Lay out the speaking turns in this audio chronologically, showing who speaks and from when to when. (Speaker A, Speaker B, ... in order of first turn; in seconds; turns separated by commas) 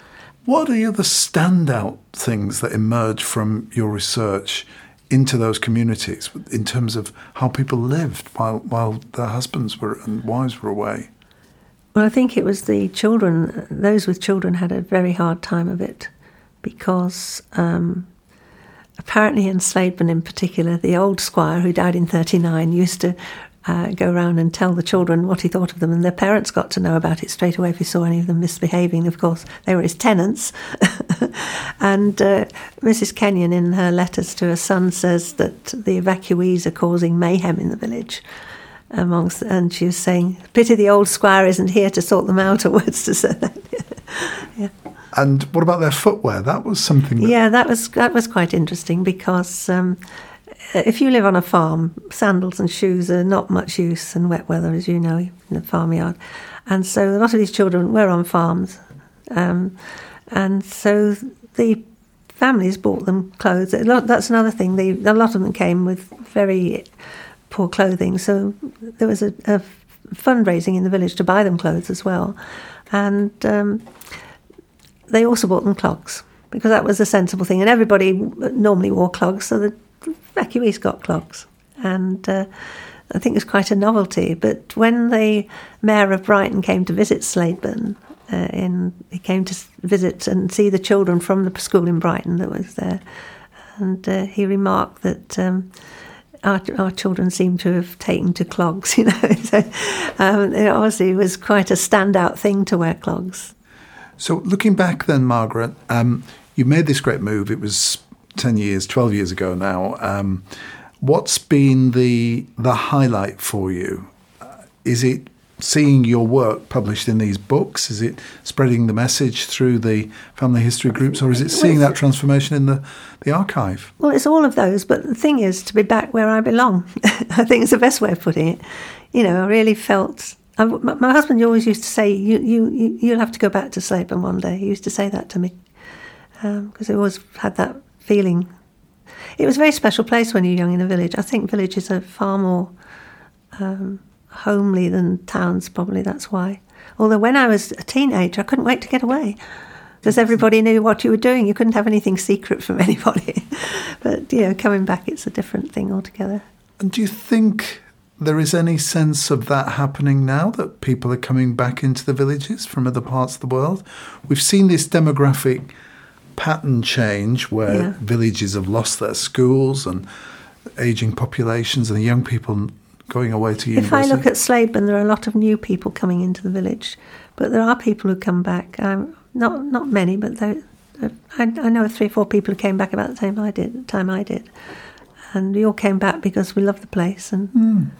Speaker A: 0.5-11.1, Speaker B: 11.9-16.1, Speaker B: 16.6-18.1, Speaker B: 19.0-38.2, Speaker B: 38.9-44.7, Speaker A: 45.1-47.4, Speaker B: 47.2-50.0, Speaker B: 50.6-59.8, Speaker B: 60.3-61.8, Speaker B: 62.4-66.9, Speaker B: 67.5-72.4, Speaker B: 72.9-73.8, Speaker B: 75.1-93.0, Speaker B: 93.8-95.7, Speaker B: 96.4-103.5, Speaker A: 104.2-110.5, Speaker A: 111.0-123.9, Speaker B: 121.4-121.9, Speaker B: 124.0-128.6, Speaker B: 129.1-135.6, Speaker B: 136.4-138.5, Speaker B: 139.4-142.7, Speaker B: 143.5-149.4, Speaker B: 150.0-156.4, Speaker A: 156.8-165.7, Speaker A: 166.3-170.1, Speaker B: 167.7-167.9, Speaker A: 170.8-174.2, Speaker B: 173.7-184.5, Speaker B: 185.3-187.6, Speaker A: 187.5-187.9